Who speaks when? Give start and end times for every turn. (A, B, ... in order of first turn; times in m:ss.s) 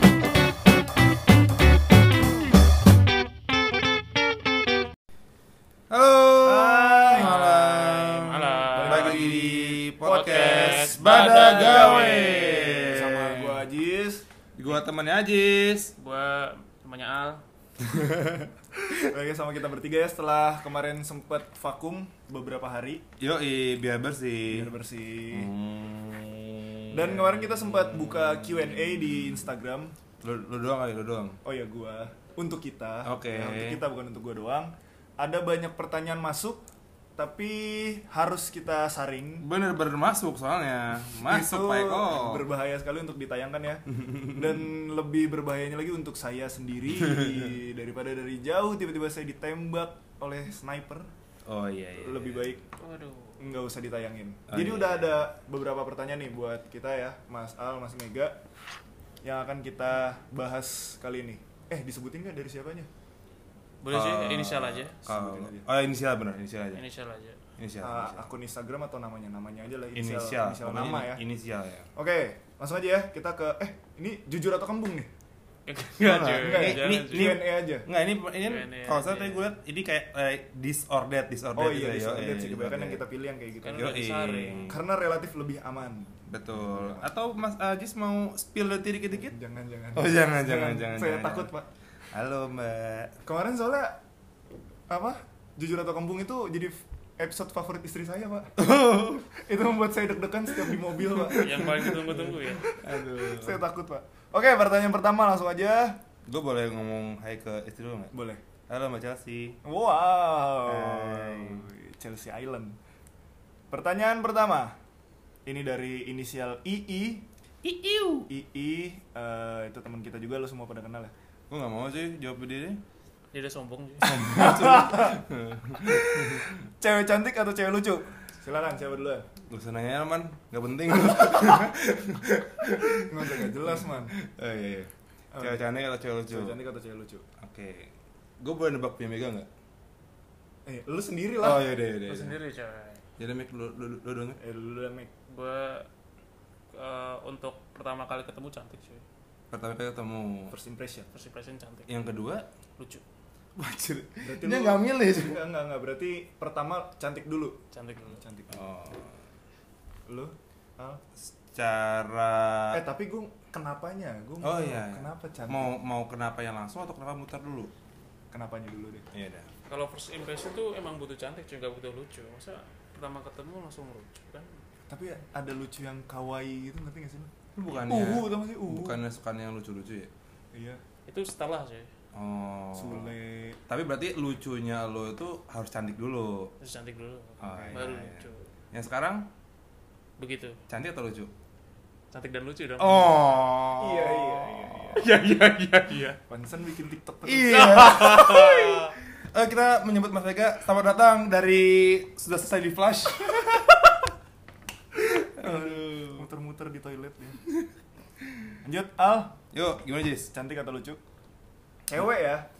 0:05.9-0:13.6 A
0:06.4-0:07.4 B
0:07.1-0:09.4 C
0:08.7-0:14.2 B
0:10.0-0:12.9 C
0:14.6-0:15.9 A
0:16.0-0:17.4 C
0:18.9-0:23.0 B
0:23.2-0:24.7 A
0:24.5-0:25.5 B
0:25.3-0:29.2 A
0:26.9-0:29.9 B
0:30.2-0:31.4 A
0:31.4-0:36.6 B
0:33.0-0:33.8 A
0:37.2-0:39.4 B
0:39.4-0:42.5 A
0:41.2-0:51.1 B
0:44.1-0:44.6 A
0:47.1-0:47.5 A
0:51.4-0:52.6 A
0:52.0-0:52.6 B
0:52.8-0:53.5 C
0:53.4-0:58.4 B
0:54.5-0:55.3 A
0:59.2-1:02.9 B
1:03.8-1:05.1 C
1:03.9-1:06.8 A
1:05.1-1:05.6 B
1:06.7-1:07.4 C
1:07.6-1:08.3 A
1:07.8-1:11.2 B
1:09.9-1:11.9 A
1:11.9-1:15.1 B
1:15.7-1:17.4 C
1:16.0-1:23.0 A
1:16.4-1:17.8 B
1:18.4-1:19.5 C
1:21.5-1:24.0 B
1:23.6-1:24.7 C
1:23.7-1:24.8 A
1:24.7-1:27.1 B
1:26.3-1:29.4 A
1:29.3-1:31.7 B
1:29.9-1:31.5 A
1:32.1-1:33.2 A
1:33.2-1:34.0 B
1:34.9-1:46.0 B
1:38.6-1:39.3 A
1:40.6-1:43.6 A
1:41.3-1:42.7 C
1:46.2-1:48.1 A
1:48.1-1:48.4 B
1:48.7-1:49.6 A
1:49.6-1:52.8 B
1:50.6-1:51.7 A
1:53.7-1:54.8 B
1:55.4-1:57.2 B
1:57.6-1:58.3 A
1:58.3-2:01.1 B
2:01.5-2:02.8 A
2:03.3-2:04.2 C
2:04.0-2:06.6 A
2:04.2-2:05.2 B
2:05.8-2:09.3 B
2:09.5-2:16.6 A
2:12.9-2:14.1 B
2:15.3-2:15.6 B
2:16.3-2:17.2 B
2:17.4-2:19.5 A
2:20.6-2:21.7 B
2:21.4-2:22.4 A
2:22.0-2:23.0 C
2:23.2-2:24.4 A
2:24.4-2:25.1 B
2:25.3-2:25.9 C
2:26.7-2:29.0 C
2:29.5-2:30.5 A
2:30.5-2:31.1 B
2:31.1-2:31.9 C
2:31.9-2:32.5 A
2:32.8-2:33.0 C
2:33.6-2:35.4 A
2:34.2-2:38.7 B
2:37.7-2:38.2 C
2:38.5-2:39.1 A
2:40.1-2:41.0 B
2:41.2-2:42.8 A
2:42.7-2:45.8 B
2:44.4-2:47.7 A
2:48.3-2:49.1 B
2:49.1-2:49.5 A
2:49.7-2:54.6 C
2:54.9-2:57.3 B
2:57.6-3:00.1 A
2:57.9-2:59.0 B
3:00.5-3:00.8 B
3:01.1-3:01.9 C
3:02.1-3:03.1 A
3:02.7-3:03.6 B
3:03.7-3:06.5 A
3:06.6-3:08.5 C
3:07.4-3:09.3 A
3:07.4-3:07.8 B
3:10.2-3:10.6 C
3:10.7-3:11.3 A
3:12.1-3:13.1 C
3:12.8-3:16.1 A
3:13.8-3:15.1 B
3:14.9-3:16.2 C
3:16.3-3:18.0 B
3:17.2-3:24.0 A
3:17.8-3:18.9 C
3:24.9-3:26.2 A
3:25.3-3:27.4 B
3:28.6-3:29.4 B
3:29.5-3:30.3 A
3:30.3-3:31.0 B
3:31.9-3:32.5 B